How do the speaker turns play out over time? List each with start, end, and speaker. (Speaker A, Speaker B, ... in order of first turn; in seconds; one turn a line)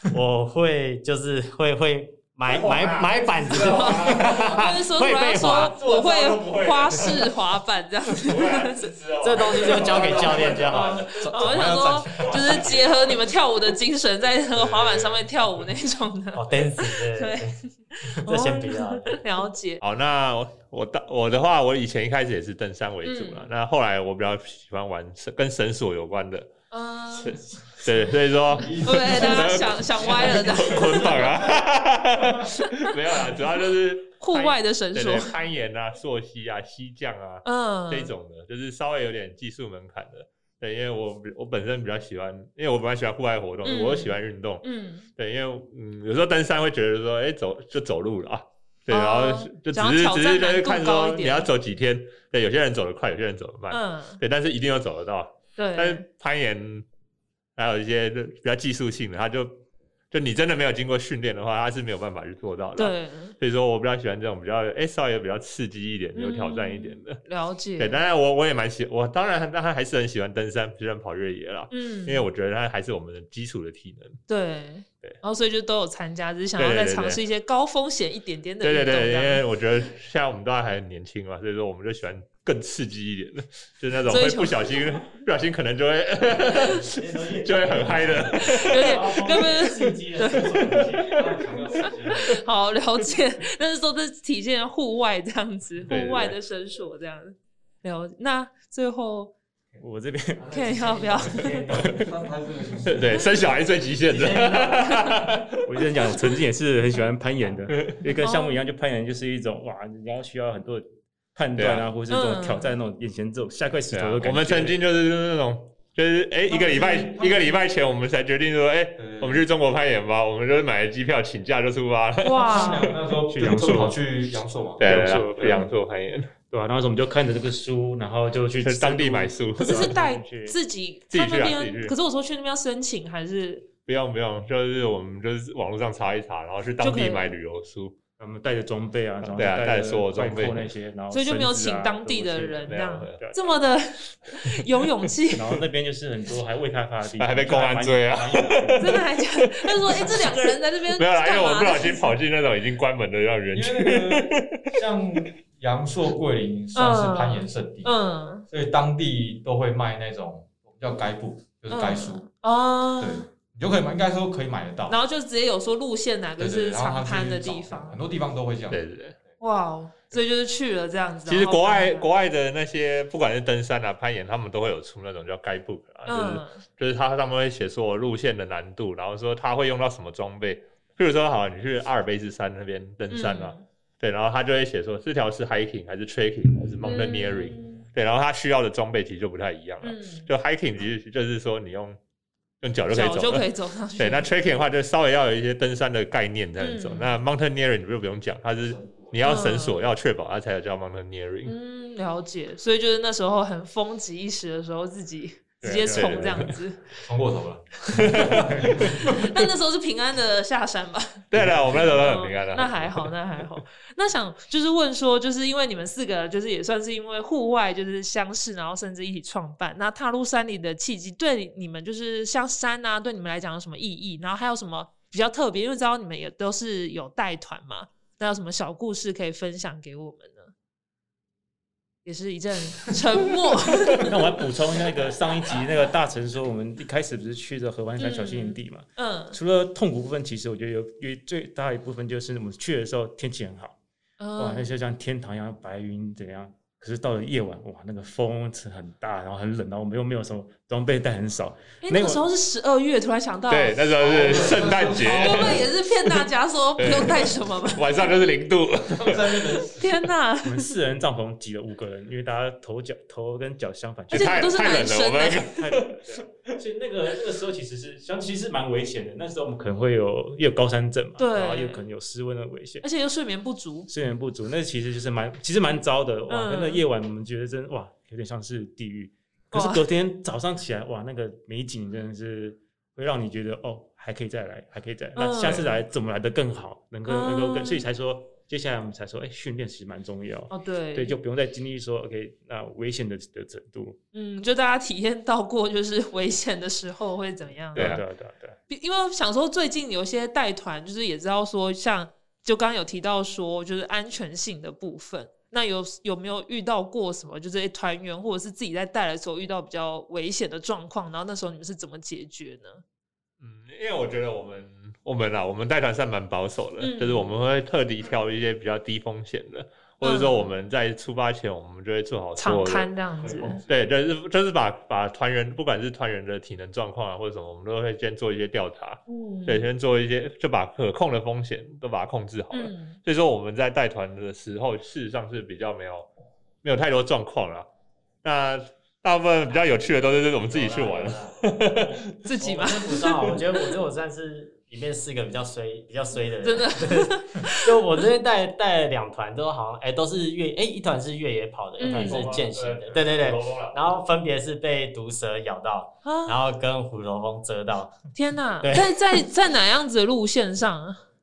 Speaker A: 0.1-5.8
Speaker B: 2.5-4.6
Speaker C: 3.6-8.8
Speaker B: 5.6-7.4
Speaker B: 8.2-13.0
Speaker A: 8.9-11.0
Speaker C: 10.7-19.8
Speaker D: 11.0-12.8
Speaker B: 14.6-15.3
Speaker A: 16.3-17.5
Speaker A: 18.1-19.2
Speaker B: 19.8-26.5
Speaker C: 23.0-23.5
Speaker C: 26.7-27.4
Speaker B: 27.1-44.6
Speaker D: 28.7-30.1
Speaker C: 28.8-31.4
Speaker D: 30.6-31.3
Speaker C: 34.2-35.3
Speaker C: 37.5-38.1
Speaker C: 43.6-45.1
Speaker B: 45.2-56.9
Speaker C: 48.9-51.5
Speaker C: 53.7-54.2
Speaker C: 55.6-56.0
Speaker B: 57.6-67.2
Speaker C: 62.8-63.4
Speaker C: 66.2-68.0
Speaker B: 67.8-74.2
Speaker C: 71.7-72.2
Speaker C: 74.3-79.4
Speaker B: 76.6-77.2
Speaker B: 78.6-86.9
Speaker C: 84.0-84.8
Speaker A: 86.8-91.6
Speaker B: 87.4-89.0
Speaker C: 88.5-91.0
Speaker B: 91.0-91.4
Speaker D: 91.0-92.4
Speaker C: 91.8-99.3
Speaker B: 95.9-96.3
Speaker E: 99.8-100.5
Speaker A: 100.4-102.0
Speaker C: 100.5-101.6
Speaker E: 101.8-102.1
Speaker D: 101.9-103.6
Speaker B: 102.9-105.6
Speaker A: 104.1-104.9
Speaker E: 105.7-114.8
Speaker C: 108.1-108.6
Speaker B: 111.6-111.9
Speaker C: 112.1-112.8
Speaker B: 113.9-123.0
Speaker D: 116.5-117.5
Speaker D: 119.0-119.5
Speaker C: 122.2-123.0
Speaker D: 122.4-124.9
Speaker E: 123.3-124.0
Speaker B: 124.8-126.3
Speaker E: 124.8-125.7
Speaker E: 126.5-130.6
Speaker B: 128.6-129.9
Speaker C: 129.6-133.7
Speaker B: 131.1-132.0
Speaker B: 133.9-138.0
Speaker C: 136.8-137.3
Speaker E: 138.2-143.6
Speaker B: 139.2-140.7
Speaker C: 141.1-145.4
Speaker B: 142.6-143.2
Speaker E: 145.3-148.9
Speaker B: 147.2-154.6
Speaker C: 148.8-152.2
Speaker D: 153.5-157.9
Speaker C: 156.7-158.4
Speaker D: 158.5-162.2
Speaker C: 161.7-163.3
Speaker D: 163.0-165.0
Speaker C: 164.9-168.0
Speaker D: 166.4-168.8
Speaker B: 168.7-169.2
Speaker C: 169.4-172.1
Speaker B: 171.3-192.0
Speaker C: 176.1-176.6
Speaker C: 183.1-183.6
Speaker C: 186.8-187.8
Speaker C: 189.8-190.3
Speaker B: 192.6-201.5
Speaker C: 192.9-194.3
Speaker C: 196.6-197.1
Speaker D: 198.7-199.2
Speaker C: 199.2-199.8
Speaker C: 201.4-206.8
Speaker D: 205.6-206.3
Speaker B: 205.8-206.5
Speaker D: 207.0-208.6
Speaker B: 208.0-208.9
Speaker C: 208.9-230.5
Speaker B: 211.3-213.1
Speaker D: 211.3-212.0
Speaker C: 232.0-234.2
Speaker E: 234.1-243.8
Speaker C: 238.0-239.4
Speaker C: 244.2-244.7
Speaker E: 244.4-252.2
Speaker C: 251.8-253.8
Speaker B: 253.5-259.6
Speaker D: 254.0-255.7
Speaker C: 255.1-258.1
Speaker D: 259.0-259.9
Speaker C: 259.8-260.7
Speaker E: 260.4-264.6
Speaker B: 264.1-266.2
Speaker C: 264.1-265.5
Speaker E: 265.6-272.8
Speaker C: 271.2-271.8
Speaker C: 272.8-273.9
Speaker E: 273.9-294.0
Speaker C: 276.3-276.8
Speaker C: 279.5-279.8
Speaker C: 285.2-285.8
Speaker C: 287.1-287.8
Speaker C: 290.5-291.2
Speaker C: 294.1-298.0
Speaker E: 297.7-298.6
Speaker B: 297.8-298.0
Speaker C: 298.7-312.8
Speaker B: 313.4-322.9
Speaker C: 316.8-317.3
Speaker C: 320.0-320.5
Speaker C: 322.4-323.6
Speaker B: 323.7-336.1
Speaker C: 329.1-329.7
Speaker C: 332.5-333.0
Speaker B: 336.6-337.7
Speaker B: 338.2-342.0
Speaker A: 340.4-358.0
Speaker C: 342.2-343.1
Speaker C: 346.4-347.7
Speaker C: 351.8-352.3
Speaker B: 351.8-354.0
Speaker C: 356.0-356.4
Speaker C: 358.1-361.0
Speaker A: 358.6-359.0